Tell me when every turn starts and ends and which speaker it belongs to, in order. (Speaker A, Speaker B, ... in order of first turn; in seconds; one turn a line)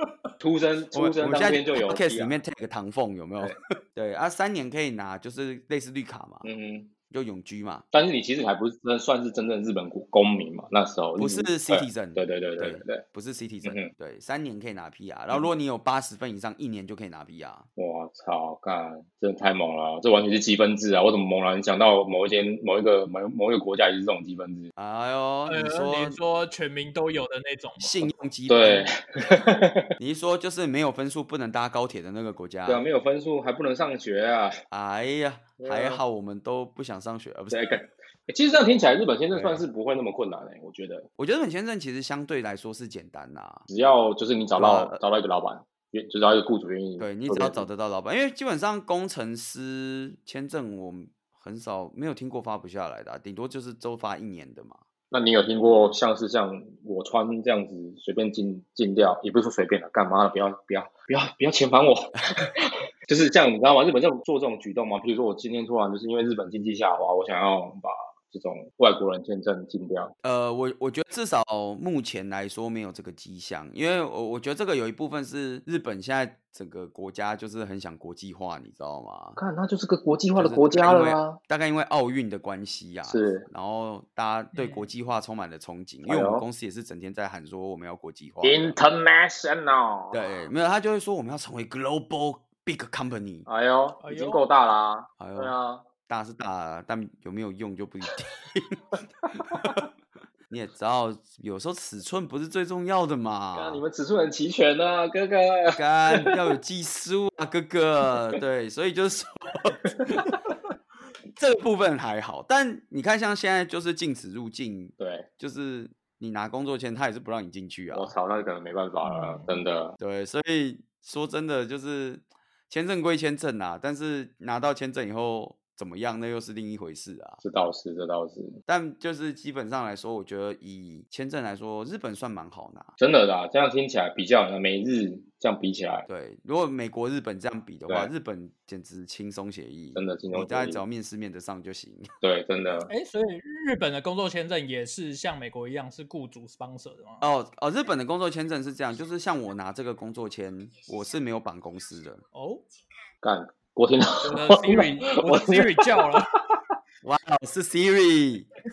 Speaker A: 0.4-2.4
Speaker B: 0.9-6.5
Speaker A: 6.4-6.9
Speaker B: 7.1-7.8
Speaker A: 7.9-13.0
Speaker B: 11.2-17.7
Speaker A: 13.6-13.9
Speaker A: 17.8-24.7
Speaker B: 24.8-26.2
Speaker C: 25.5-28.0
Speaker B: 27.8-28.9
Speaker A: 28.5-29.9
Speaker B: 30.0-32.8
Speaker A: 32.6-34.5
Speaker B: 34.7-37.8
Speaker A: 35.6-36.0
Speaker A: 37.5-41.1
Speaker B: 39.3-39.6
Speaker B: 41.2-43.7
Speaker A: 43.7-47.6
Speaker B: 44.5-45.0
Speaker B: 47.0-54.8
Speaker A: 55.1-70.1
Speaker B: 62.2-62.5
Speaker B: 70.2-79.4
Speaker A: 79.4-81.4
Speaker B: 80.4-88.8
Speaker A: 83.0-83.5
Speaker C: 84.5-84.9
Speaker A: 86.0-86.4
Speaker A: 88.4-90.2
Speaker B: 90.1-93.5
Speaker A: 93.5-95.9
Speaker C: 94.0-94.4
Speaker B: 95.2-95.5
Speaker B: 96.1-99.9
Speaker A: 99.5-99.8
Speaker B: 100.5-103.8
Speaker A: 103.5-106.3
Speaker B: 105.7-110.4
Speaker A: 110.0-110.3
Speaker B: 111.4-118.1
Speaker A: 115.0-115.3
Speaker A: 117.9-119.9
Speaker C: 119.0-119.5
Speaker B: 120.0-127.4
Speaker A: 127.4-128.6
Speaker B: 128.7-132.9
Speaker A: 133.0-136.1
Speaker B: 136.1-142.1
Speaker A: 139.9-140.8
Speaker A: 142.2-142.9
Speaker C: 142.9-147.2
Speaker B: 147.2-152.2
Speaker C: 152.3-152.6
Speaker A: 153.2-156.6
Speaker C: 154.2-156.3
Speaker B: 157.0-158.5